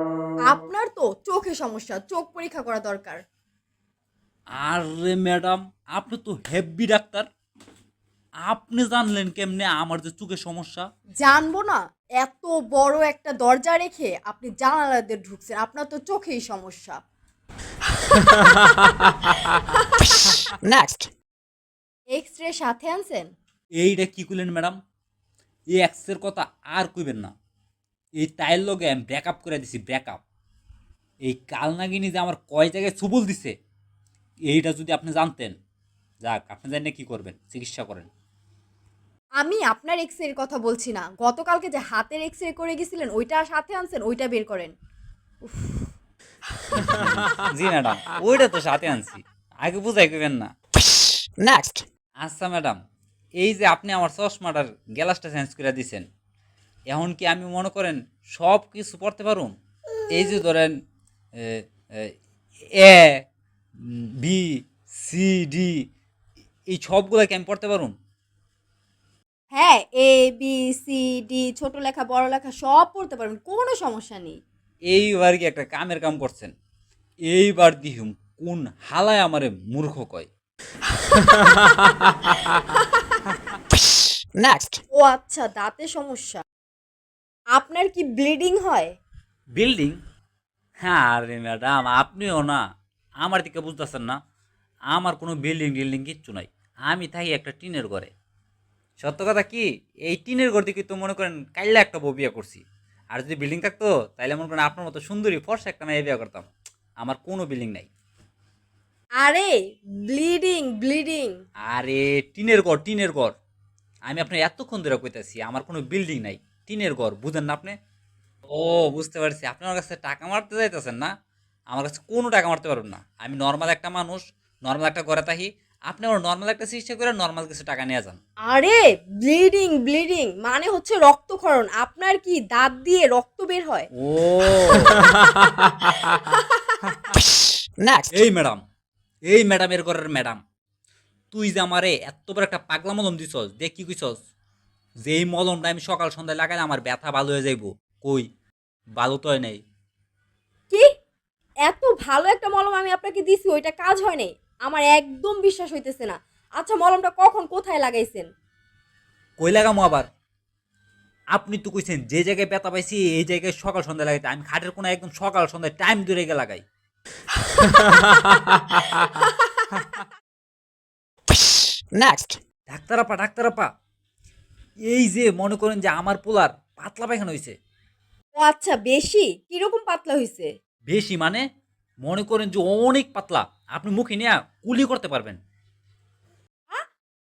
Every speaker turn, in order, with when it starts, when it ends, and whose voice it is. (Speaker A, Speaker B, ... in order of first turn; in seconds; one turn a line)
Speaker A: 0.4-3.2
Speaker B: 4.5-7.3
Speaker B: 8.4-10.8
Speaker A: 11.2-17.0
Speaker A: 19.6-20.3
Speaker C: 20.0-21.1
Speaker A: 22.1-23.3
Speaker B: 23.8-24.8
Speaker B: 25.7-27.3
Speaker B: 28.2-30.2
Speaker B: 31.2-33.5
Speaker B: 34.5-35.5
Speaker B: 36.2-38.1
Speaker A: 39.4-44.7
Speaker A: 45.4-45.9
Speaker B: 46.7-50.5
Speaker C: 50.8-51.8
Speaker B: 52.2-52.8
Speaker B: 53.4-56.0
Speaker B: 56.9-59.5
Speaker B: 60.1-60.8
Speaker B: 61.4-62.1
Speaker B: 62.8-63.2
Speaker B: 63.8-65.8
Speaker B: 66.7-67.9
Speaker A: 69.5-74.4
Speaker B: 74.9-76.5
Speaker B: 77.3-80.3
Speaker C: 83.7-84.8
Speaker A: 84.9-86.4
Speaker A: 87.5-89.0
Speaker B: 89.5-90.0
Speaker B: 90.8-92.6
Speaker B: 93.2-94.2
Speaker B: 94.9-98.1
Speaker B: 99.0-106.5
Speaker B: 107.0-107.9
Speaker A: 109.2-111.4
Speaker B: 111.7-113.3
Speaker B: 114.1-117.7
Speaker B: 118.5-121.1
Speaker B: 121.7-128.2
Speaker A: 128.4-133.9
Speaker B: 134.0-135.3
Speaker A: 136.0-136.4
Speaker C: 137.1-138.2
Speaker B: 138.1-138.6
Speaker B: 139.3-140.4
Speaker B: 141.3-144.1
Speaker B: 145.0-148.2
Speaker B: 149.0-149.6
Speaker A: 151.7-158.3
Speaker B: 159.4-160.0
Speaker B: 161.3-166.6
Speaker A: 169.0-169.5
Speaker C: 171.3-172.4
Speaker B: 172.7-173.7
Speaker B: 174.9-177.5
Speaker A: 178.3-180.5
Speaker B: 180.9-181.4
Speaker B: 182.0-185.4